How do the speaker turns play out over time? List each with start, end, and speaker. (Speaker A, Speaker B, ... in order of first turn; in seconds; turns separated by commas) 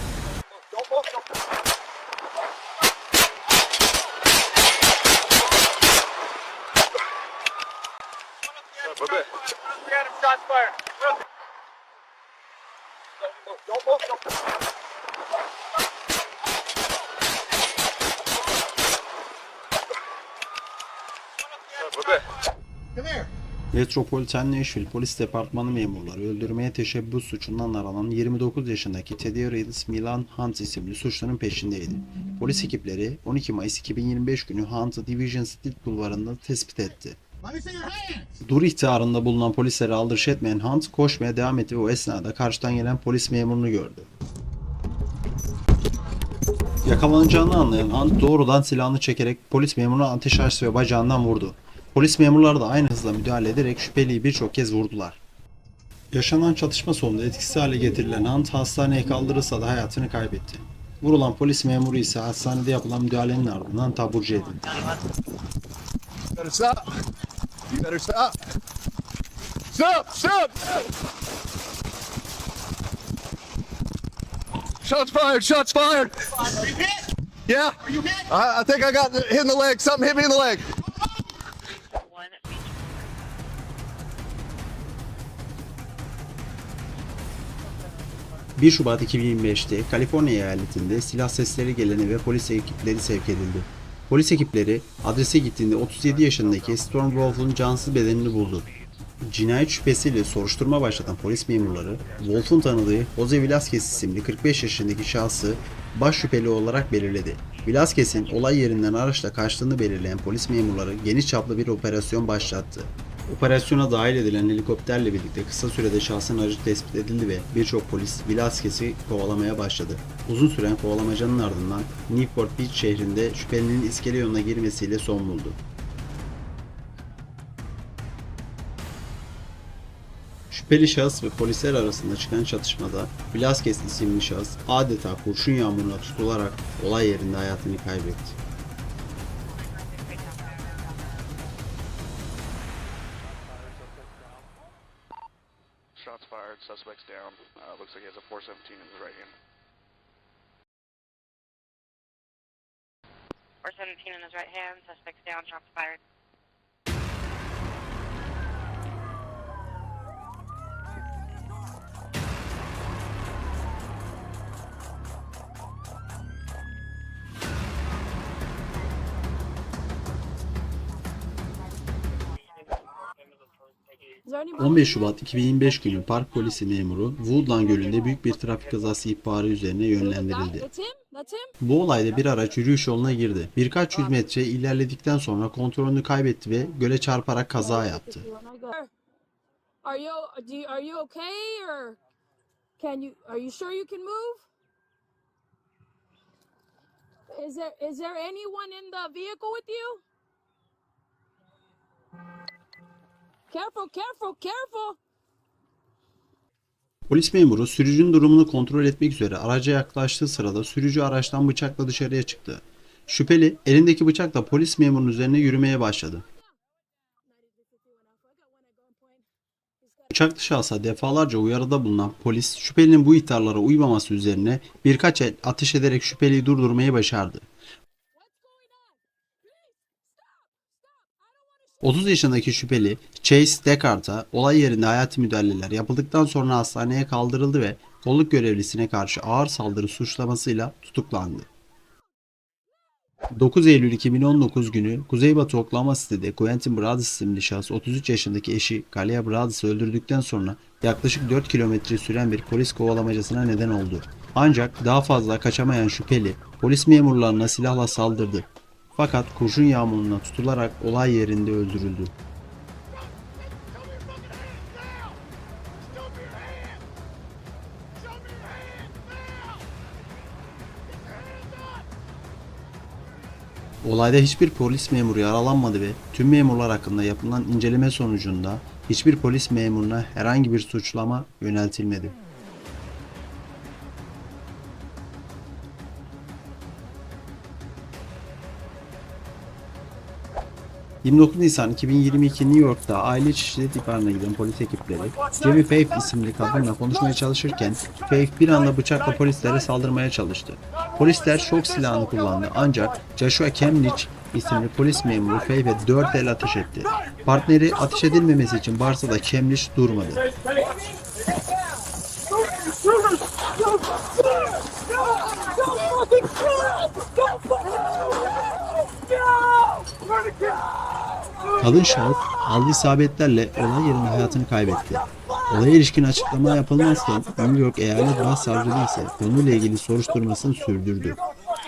Speaker A: 8.8-9.3, Speaker B: 23.7-37.2, Speaker B: 38.4-44.1, Speaker B: 46.9-55.2, Speaker B: 56.1-64.7, Speaker C: 66.4-66.8, Speaker C: 67.8-68.3, Speaker C: 69.7-70.6, Speaker C: 74.8-76.2, Speaker C: 77.5-80.7, Speaker D: 82.2-82.8, Speaker B: 88.6-98.7, Speaker B: 99.2-125.6, Speaker B: 130.5-138.4, Speaker A: 146.0-149.3, Speaker D: 153.7-156.0, Speaker E: 174.2-175.2, Speaker B: 174.6-180.7, Speaker E: 180.0-181.5, Speaker B: 181.6-188.3, Speaker E: 187.6-188.9, Speaker E: 189.8-192.0, Speaker E: 192.8-194.4, Speaker E: 197.3-200.0, Speaker E: 203.5-205.0, Speaker B: 207.1-216.2, Speaker E: 217.3-219.2, Speaker E: 219.8-220.1, Speaker B: 220.1-227.5, Speaker E: 228.2-231.8, Speaker B: 231.8-241.5, Speaker B: 243.4-262.1, Speaker B: 273.8-282.2, Speaker B: 291.0-310.2, Speaker B: 321.6-331.2